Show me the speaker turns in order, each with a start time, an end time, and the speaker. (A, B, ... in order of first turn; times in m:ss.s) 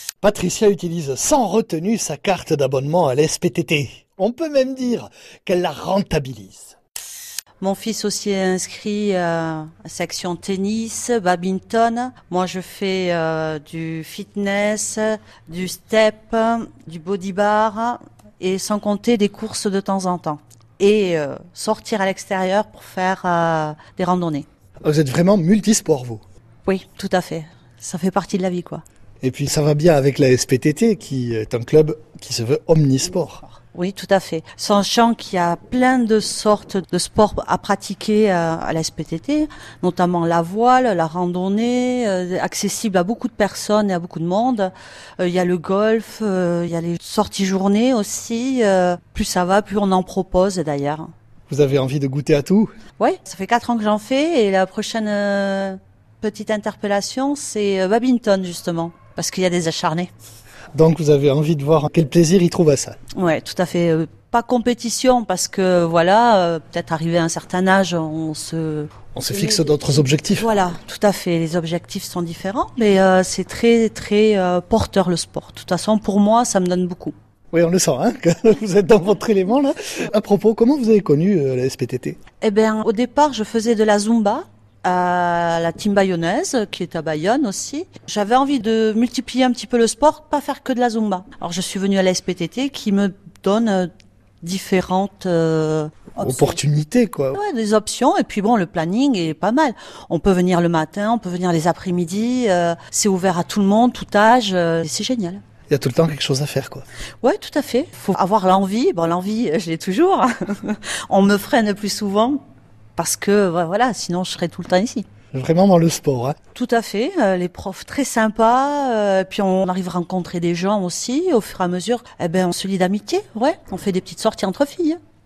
0:00.2-0:06.7 A
0:07.6-0:24.4 B
0:24.8-0:26.2 A
0:26.6-0:28.8 B
0:29.2-0:33.4 A
0:33.7-0:51.1 B
0:51.5-0:52.7 A
0:53.0-1:00.1 B
1:00.7-1:03.0 A
1:03.1-1:08.9 B
1:09.1-1:10.5 A
1:10.3-1:17.1 B
1:17.5-1:22.2 A
1:22.4-1:33.9 B
1:34.4-1:36.6 B
1:36.2-1:37.4 A
1:37.3-1:45.4 B
1:45.7-1:46.8 A
1:47.2-1:52.4 B
1:53.0-1:55.1 B
1:55.3-1:56.4 A
1:56.5-2:05.0 B